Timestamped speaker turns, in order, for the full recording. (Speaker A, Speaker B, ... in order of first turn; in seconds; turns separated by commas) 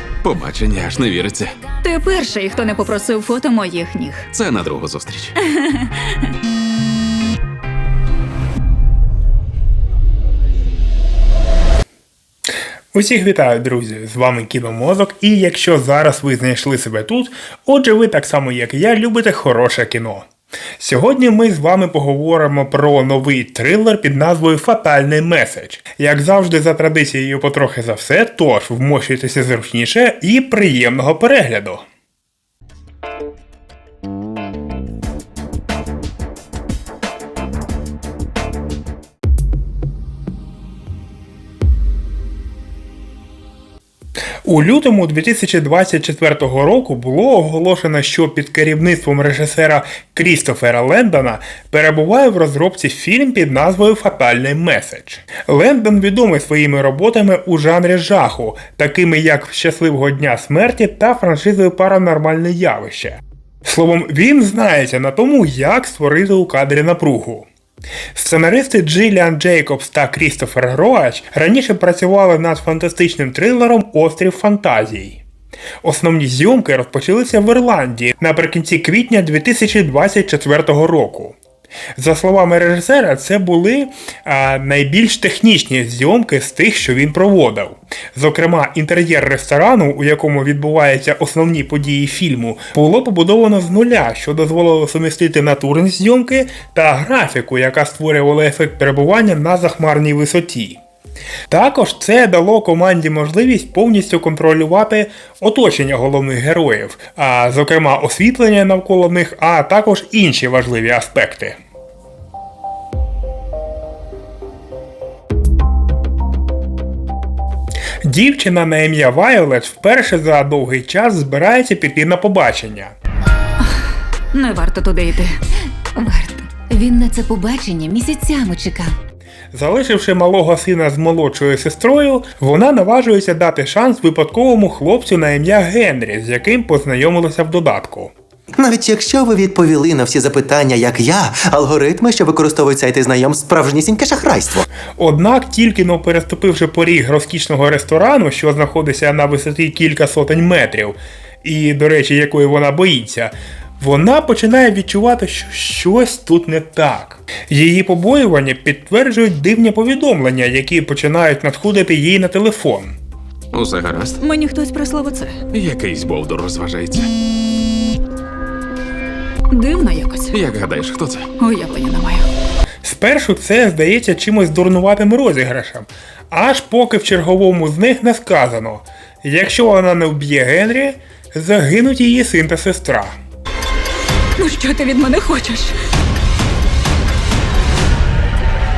Speaker A: 0.2-1.6, Speaker B: 1.8-4.2, Speaker A: 4.3-5.3, Speaker B: 5.6-6.1, Speaker C: 12.9-20.3, Speaker C: 20.8-31.8, Speaker C: 44.4-67.5, Speaker C: 68.1-75.2, Speaker C: 75.8-81.4, Speaker C: 82.0-100.8, Speaker C: 101.5-111.6, Speaker C: 118.0-122.9, Speaker B: 124.3-125.3, Speaker B: 125.9-126.5, Speaker D: 126.5-128.9, Speaker C: 129.5-138.1, Speaker E: 138.6-144.6, Speaker C: 145.0-162.9, Speaker A: 163.5-164.2, Speaker B: 164.2-165.4, Speaker A: 165.5-167.1, Speaker B: 169.5-170.3, Speaker A: 170.3-171.3, Speaker B: 171.4-172.3, Speaker C: 172.8-183.2, Speaker B: 184.4-185.7